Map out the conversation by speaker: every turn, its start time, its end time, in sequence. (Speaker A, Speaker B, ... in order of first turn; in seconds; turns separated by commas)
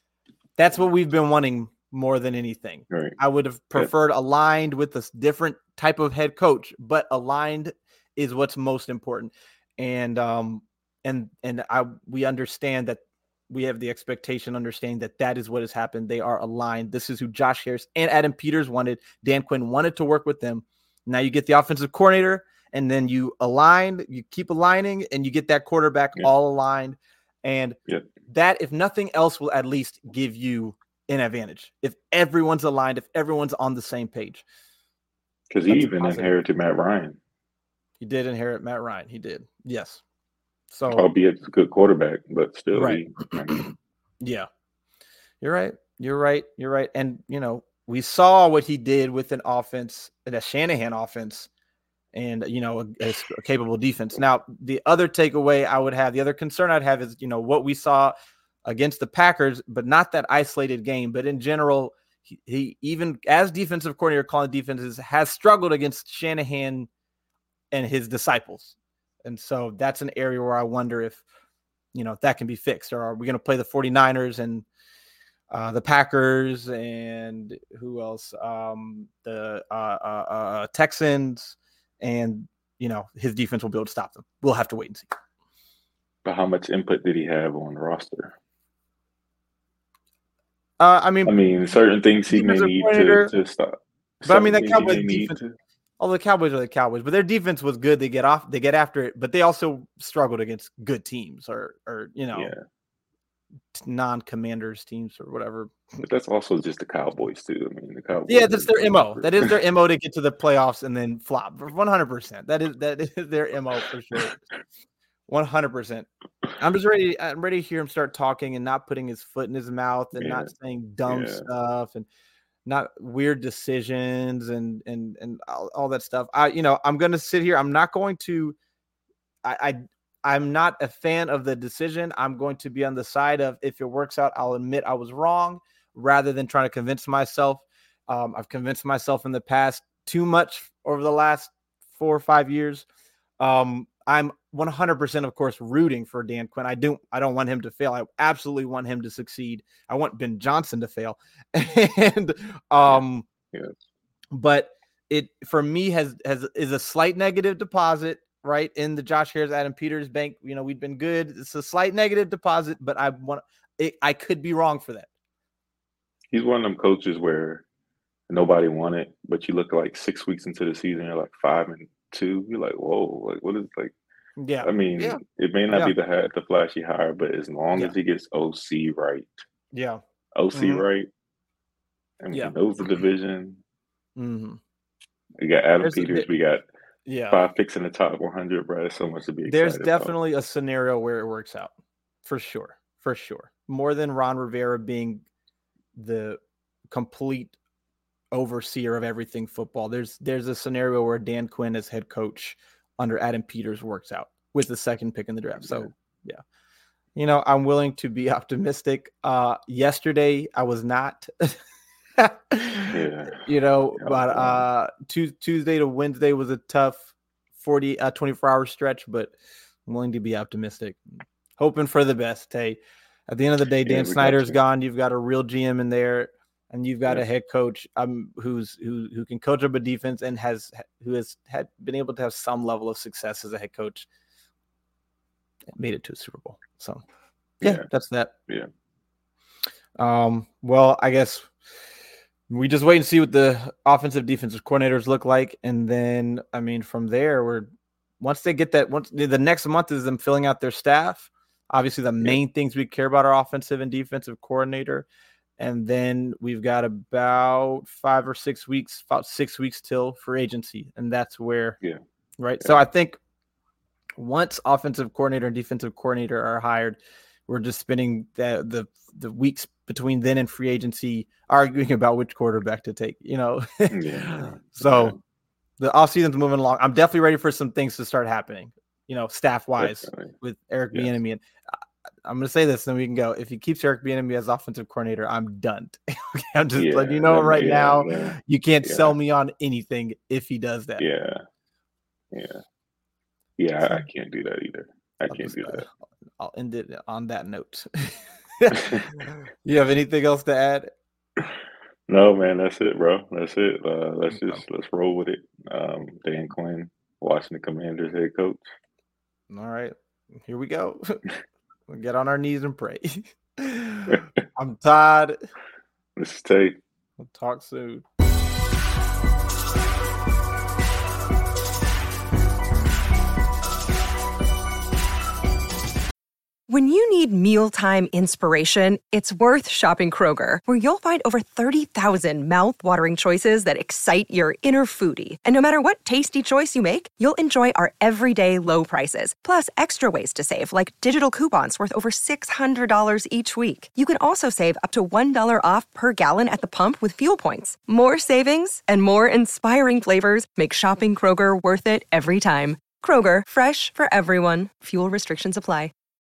Speaker A: 0.6-27.8, Speaker B: 2.9-3.2, Speaker A: 28.3-34.5, Speaker B: 35.5-37.2, Speaker A: 35.7-36.3, Speaker A: 38.0-40.0, Speaker A: 40.7-41.0, Speaker B: 40.9-43.7, Speaker A: 42.7-43.0, Speaker A: 44.2-44.5, Speaker A: 45.4-51.5, Speaker A: 52.1-58.1, Speaker A: 58.7-66.9, Speaker A: 67.7-71.2, Speaker A: 71.9-74.7, Speaker A: 75.5-85.1, Speaker B: 86.2-88.3, Speaker A: 90.8-91.3, Speaker B: 91.2-95.5, Speaker A: 92.3-93.3, Speaker A: 94.2-95.4, Speaker A: 96.0-102.5, Speaker B: 102.3-102.6, Speaker A: 103.7-105.8, Speaker B: 106.0-109.5, Speaker A: 108.3-114.4, Speaker A: 115.3-116.1, Speaker A: 116.6-122.1, Speaker B: 120.2-120.5, Speaker B: 121.1-121.5, Speaker A: 122.7-128.6, Speaker A: 129.4-142.9, Speaker A: 143.4-153.2, Speaker A: 154.3-165.1, Speaker B: 166.3-167.6, Speaker B: 168.3-173.9, Speaker A: 174.4-175.2, Speaker B: 174.6-179.4, Speaker A: 179.7-180.0, Speaker B: 180.3-181.1, Speaker A: 180.5-180.8, Speaker B: 182.2-183.6, Speaker A: 184.2-184.6, Speaker B: 185.4-186.7, Speaker A: 185.8-186.3, Speaker A: 187.1-187.4, Speaker B: 187.3-190.1, Speaker A: 189.5-191.7, Speaker A: 192.2-195.2, Speaker A: 196.0-196.4, Speaker A: 196.9-197.6, Speaker A: 198.3-206.4, Speaker A: 207.2-211.6, Speaker A: 212.2-219.3, Speaker B: 212.9-214.6, Speaker A: 219.9-221.0, Speaker A: 221.6-234.1, Speaker B: 223.8-224.6, Speaker A: 235.8-237.0, Speaker A: 237.6-238.3, Speaker A: 240.0-241.5, Speaker A: 242.5-247.7, Speaker A: 248.2-255.1, Speaker A: 255.6-261.8, Speaker A: 262.4-263.2, Speaker A: 264.2-275.1, Speaker B: 273.9-275.2, Speaker A: 275.8-281.4, Speaker B: 279.8-280.3, Speaker A: 282.2-291.0, Speaker B: 286.8-289.1, Speaker B: 291.0-291.4, Speaker B: 292.3-292.6, Speaker B: 293.6-295.8, Speaker A: 295.3-295.9, Speaker A: 296.4-300.9, Speaker B: 298.7-299.1, Speaker B: 302.1-308.6, Speaker A: 304.4-304.6, Speaker A: 309.5-311.2, Speaker A: 311.9-315.4, Speaker B: 316.2-316.8, Speaker A: 317.2-318.1, Speaker C: 326.7-355.9